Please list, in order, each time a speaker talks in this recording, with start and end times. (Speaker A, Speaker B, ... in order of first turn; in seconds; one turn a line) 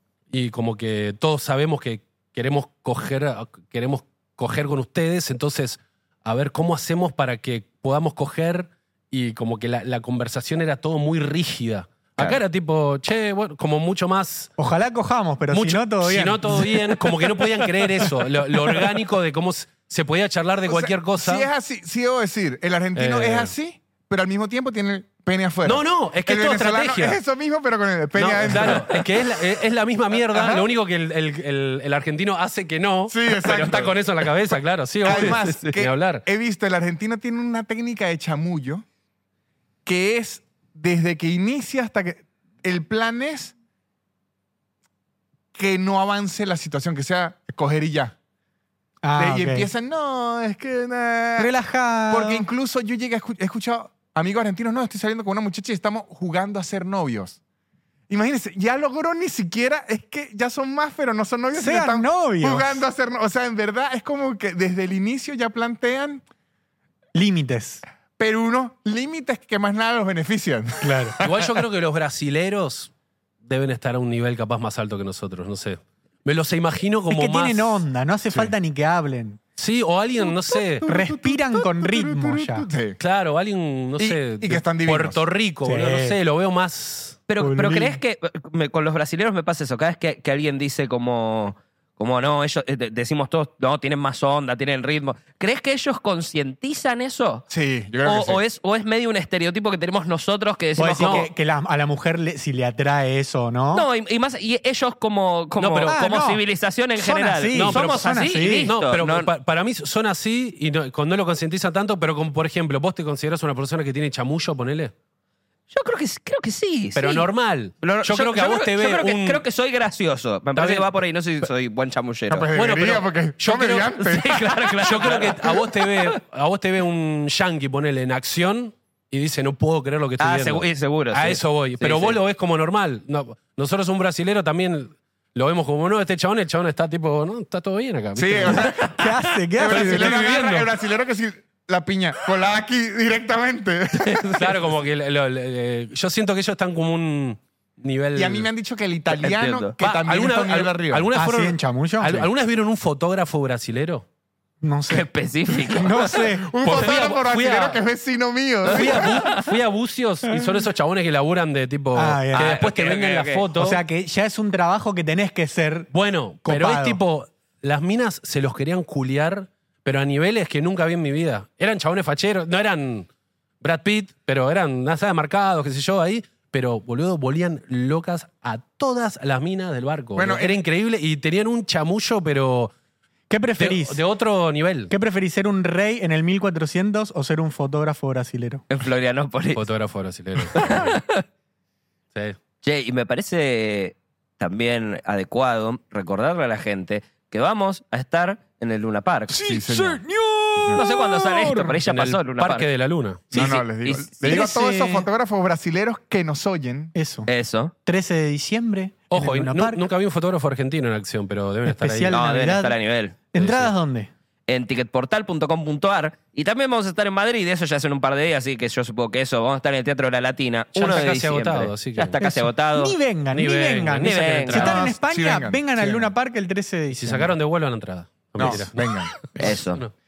Speaker A: 0.3-14.5
Speaker B: 14.6-16.8
Speaker A: 15.5-21.5
Speaker C: 17.4-18.1
Speaker D: 20.7-29.0
Speaker A: 22.9-23.5
Speaker A: 25.6-27.2
Speaker A: 28.1-36.2
Speaker C: 28.7-29.1
Speaker D: 30.4-30.7
Speaker D: 33.1-34.0
Speaker D: 35.0-38.8
Speaker C: 35.1-35.5
Speaker D: 39.9-43.5
Speaker D: 45.5-48.1
Speaker B: 49.0-49.7
Speaker D: 49.2-51.5
Speaker B: 51.4-52.4
Speaker D: 52.1-57.4
Speaker D: 58.1-66.2
Speaker B: 61.5-62.8
Speaker B: 67.2-67.8
Speaker D: 68.2-71.5
Speaker B: 70.8-71.2
Speaker A: 71.2-72.9
Speaker A: 73.4-77.8
Speaker B: 77.1-79.4
Speaker A: 79.6-80.8
Speaker D: 80.2-83.0
Speaker B: 80.8-82.7
Speaker A: 83.0-87.2
Speaker D: 84.0-85.2
Speaker B: 85.7-86.2
Speaker C: 87.3-97.5
Speaker B: 87.4-88.0
Speaker D: 97.5-98.4
Speaker C: 98.0-101.3
Speaker B: 100.8-103.9
Speaker A: 101.0-101.3
Speaker C: 103.7-109.3
Speaker A: 105.6-106.0
Speaker B: 105.8-106.4
Speaker B: 107.0-108.7
Speaker A: 107.5-114.9
Speaker C: 115.7-117.3
Speaker A: 117.0-119.4
Speaker C: 117.8-122.5
Speaker A: 120.5-120.9
Speaker D: 122.3-124.4
Speaker A: 122.5-138.7
Speaker C: 124.0-126.2
Speaker C: 130.2-132.2
Speaker D: 138.2-139.0
Speaker C: 138.6-139.1
Speaker B: 138.8-140.2
Speaker D: 139.6-144.6
Speaker A: 139.7-140.7
Speaker C: 143.9-144.6
Speaker A: 144.4-148.5
Speaker D: 148.2-151.1
Speaker C: 149.1-149.7
Speaker A: 149.8-154.1
Speaker B: 151.2-152.3
Speaker B: 154.6-156.5
Speaker C: 154.9-156.2
Speaker D: 156.0-159.2
Speaker A: 156.6-157.8
Speaker C: 158.7-159.5
Speaker A: 158.7-163.8
Speaker B: 160.3-160.6
Speaker B: 161.9-162.6
Speaker C: 162.3-163.5
Speaker B: 163.6-165.9
Speaker A: 165.9-173.1
Speaker B: 166.4-167.0
Speaker A: 173.6-182.7
Speaker D: 180.2-180.6
Speaker B: 183.3-184.0
Speaker A: 183.6-184.9
Speaker B: 184.9-188.6
Speaker C: 188.7-189.6
Speaker A: 189.6-191.0
Speaker C: 190.5-191.2
Speaker C: 192.6-199.3
Speaker B: 199.3-201.8
Speaker D: 199.4-200.0
Speaker D: 200.6-200.8
Speaker C: 200.7-202.7
Speaker A: 201.8-203.4
Speaker C: 203.3-204.5
Speaker D: 203.3-206.9
Speaker B: 204.2-205.1
Speaker B: 206.9-207.3
Speaker C: 207.3-207.7
Speaker B: 207.8-209.8
Speaker A: 209.1-212.2
Speaker B: 211.7-212.8
Speaker C: 212.1-213.2
Speaker B: 213.3-214.1
Speaker A: 213.3-213.7
Speaker C: 214.5-222.9
Speaker A: 220.8-222.1
Speaker B: 222.2-227.3
Speaker A: 223.3-224.9
Speaker C: 224.0-224.8
Speaker D: 224.7-226.1
Speaker A: 226.9-229.9
Speaker D: 228.4-229.2
Speaker C: 229.4-229.8